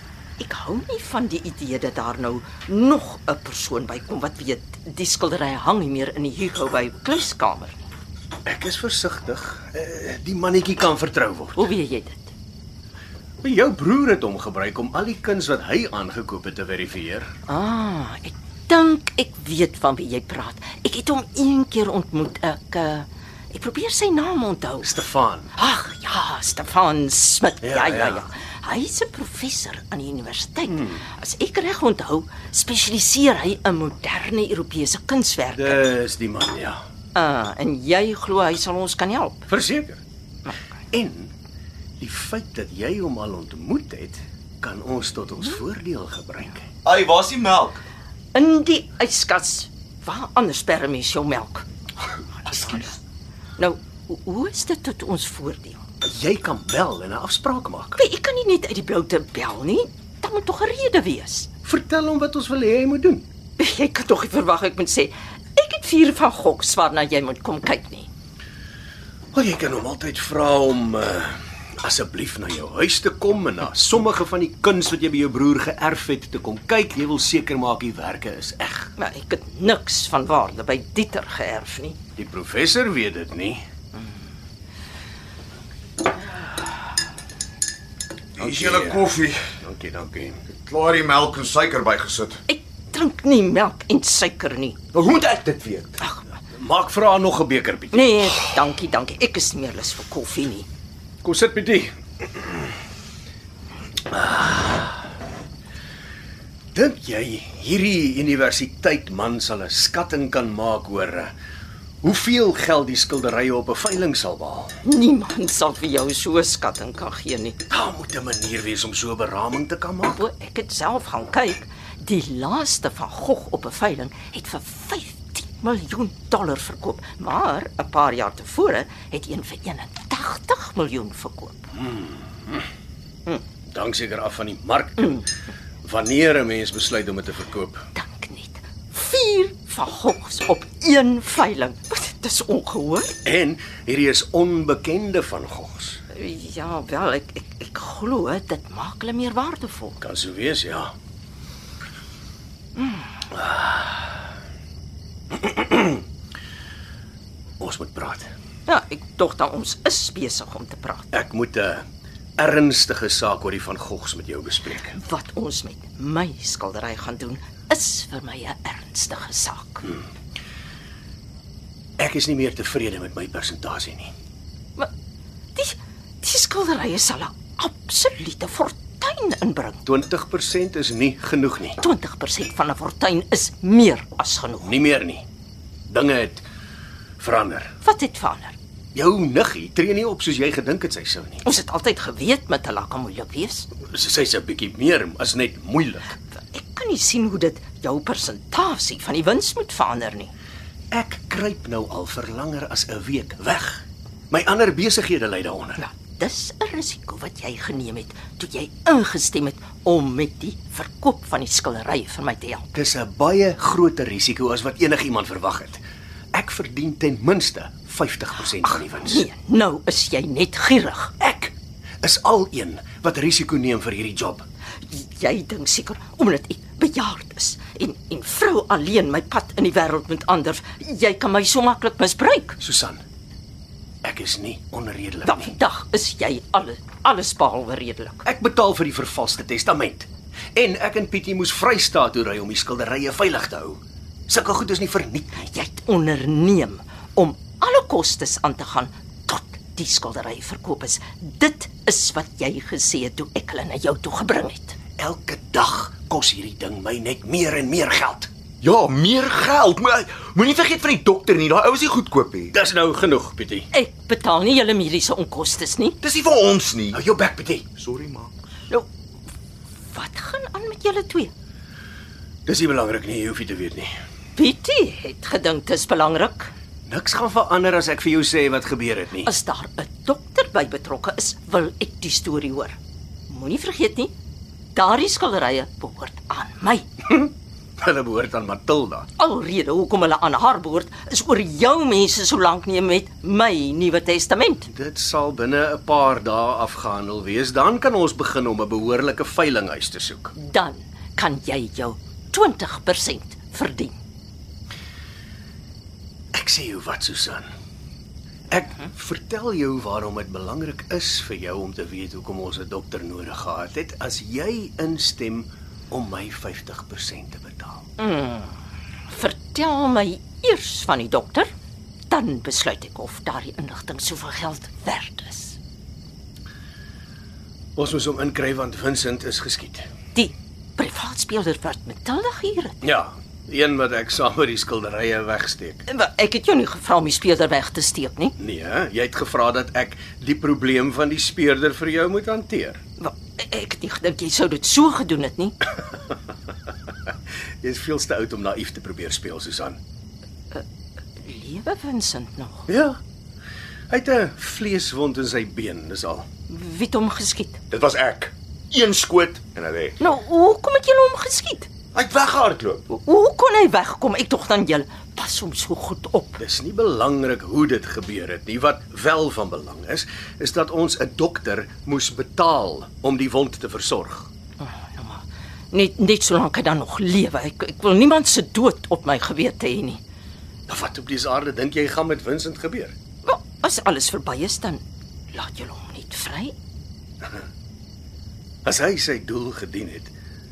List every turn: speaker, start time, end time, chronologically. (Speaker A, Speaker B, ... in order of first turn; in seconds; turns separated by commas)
Speaker A: 0.4-7.8, Speaker B: 8.4-11.7, Speaker A: 11.6-12.3, Speaker B: 13.4-17.3, Speaker A: 17.5-24.9, Speaker B: 24.8-25.5, Speaker A: 25.6-35.8, Speaker B: 27.6-28.2, Speaker B: 30.7-31.0, Speaker B: 35.5-36.8, Speaker A: 37.1-39.5, Speaker B: 39.5-40.0, Speaker B: 40.9-41.3, Speaker B: 42.0-46.7, Speaker C: 46.8-47.8, Speaker A: 48.3-51.6, Speaker A: 52.4-53.0, Speaker A: 53.6-55.8, Speaker B: 56.0-58.0, Speaker A: 58.0-61.5, Speaker B: 61.6-63.2, Speaker A: 63.6-68.1, Speaker B: 69.3-78.9, Speaker A: 79.0-82.0, Speaker B: 82.2-83.6, Speaker C: 88.4-89.4, Speaker B: 88.4-90.4, Speaker C: 90.5-92.4, Speaker A: 92.5-94.8, Speaker C: 94.9-96.0, Speaker B: 96.5-98.5, Speaker A: 97.9-100.7, Speaker B: 101.2-102.5, Speaker B: 104.1-105.0, Speaker B: 106.7-111.3, Speaker B: 112.0-114.8, Speaker A: 114.8-117.6, Speaker B: 117.7-120.2, Speaker A: 120.1-131.7, Speaker B: 131.8-132.6, Speaker B: 133.7-135.2, Speaker B: 135.8-137.8, Speaker A: 137.9-143.2, Speaker B: 143.2-146.0, Speaker A: 146.1-150.0, Speaker B: 150.0-150.9, Speaker B: 153.3-154.1, Speaker B: 155.3-156.0, Speaker B: 157.6-158.3, Speaker A: 158.7-161.1, Speaker B: 161.1-161.8, Speaker B: 162.4-165.0, Speaker A: 164.9-170.0, Speaker B: 172.0-174.1, Speaker A: 175.5-179.8, Speaker B: 179.8-181.8, Speaker A: 181.8-184.7, Speaker B: 184.6-185.2, Speaker B: 185.9-186.4, Speaker B: 187.2-187.7, Speaker A: 187.8-188.5, Speaker B: 188.9-191.4, Speaker A: 191.4-193.7, Speaker B: 193.9-196.1, Speaker A: 196.5-200.3, Speaker B: 200.9-205.8, Speaker A: 205.8-212.7, Speaker B: 212.7-215.8, Speaker B: 216.3-219.2, Speaker A: 218.7-221.1, Speaker B: 221.2-224.4, Speaker A: 224.9-232.6, Speaker B: 232.6-233.0, Speaker B: 234.0-235.5, Speaker A: 235.2-238.2, Speaker B: 238.2-245.5, Speaker A: 245.3-254.8, Speaker B: 255.0-258.3, Speaker C: 258.6-262.5, Speaker B: 262.5-263.7, Speaker A: 263.7-266.0, Speaker C: 266.0-267.0, Speaker B: 266.9-267.6, Speaker C: 267.7-268.3, Speaker A: 269.9-271.3, Speaker B: 272.4-273.9, Speaker A: 274.4-276.5, Speaker B: 276.9-279.3, Speaker A: 279.2-282.8, Speaker A: 283.3-284.1, Speaker A: 284.7-286.9, Speaker B: 287.1-289.1, Speaker A: 289.2-294.7, Speaker B: 294.7-300.3, Speaker A: 300.4-303.9, Speaker B: 306.3-307.5, Speaker B: 308.5-317.9, Speaker A: 318.0-318.5, Speaker A: 319.1-321.5, Speaker A: 322.1-325.6, Speaker B: 327.8-329.9, Speaker A: 330.1-332.8, Speaker B: 332.8-335.8, Speaker A: 335.9-338.3, Speaker B: 338.4-342.8, Speaker A: 343.0-345.6, Speaker B: 347.6-349.8, Speaker A: 351.2-352.7, Speaker B: 352.7-353.0, Speaker B: 353.9-356.2, Speaker A: 356.5-357.6, Speaker C: 357.7-360.0, Speaker A: 360.0-361.7, Speaker C: 361.9-362.9, Speaker A: 362.9-366.4, Speaker B: 366.4-374.3, Speaker A: 374.6-380.0, Speaker B: 380.7-382.9, Speaker A: 383.2-386.5, Speaker B: 388.6-390.1